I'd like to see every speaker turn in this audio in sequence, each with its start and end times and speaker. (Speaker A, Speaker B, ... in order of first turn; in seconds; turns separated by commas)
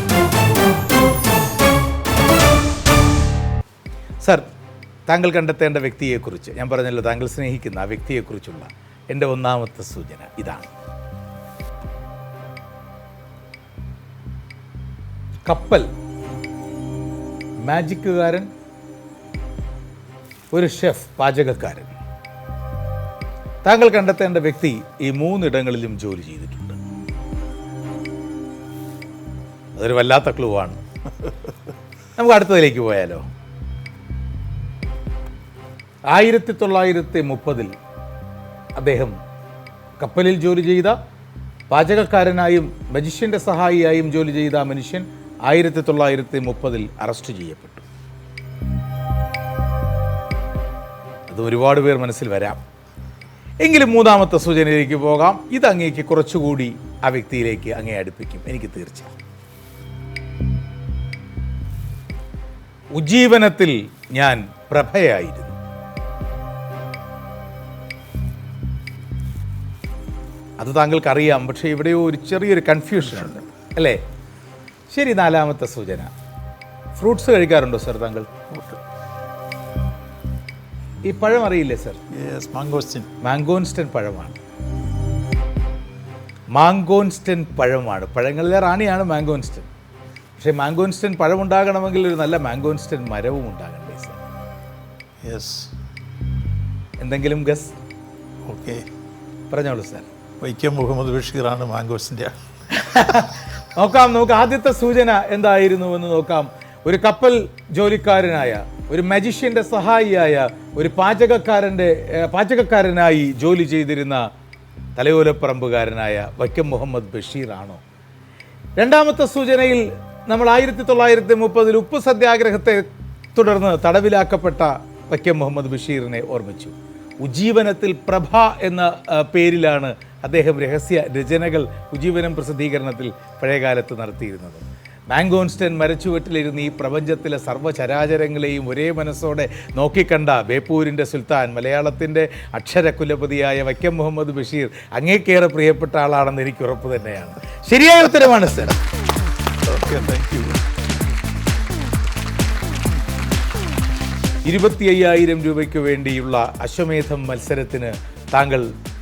Speaker A: 5.1-10.7, Speaker A: 15.4-15.9, Speaker A: 17.6-18.5, Speaker A: 20.5-21.9, Speaker A: 23.6-26.8, Speaker A: 29.8-30.8, Speaker A: 32.2-33.2, Speaker A: 36.1-37.7, Speaker A: 38.8-39.1, Speaker A: 40.0-41.0, Speaker A: 41.7-47.8, Speaker A: 51.3-52.6, Speaker A: 53.6-59.1, Speaker A: 62.9-65.6, Speaker A: 70.6-74.0, Speaker A: 74.9-76.1, Speaker A: 76.9-78.3, Speaker B: 78.5-78.8, Speaker A: 81.0-82.0, Speaker B: 82.1-83.1, Speaker A: 83.2-84.4, Speaker A: 86.5-89.7, Speaker A: 90.4-94.2, Speaker B: 95.2-95.7, Speaker A: 97.0-97.8, Speaker B: 98.5-98.8, Speaker A: 99.5-100.1, Speaker B: 100.4-102.3, Speaker A: 102.7-114.3, Speaker A: 115.0-117.8, Speaker A: 118.8-148.8, Speaker B: 149.7-150.6, Speaker A: 154.4-158.7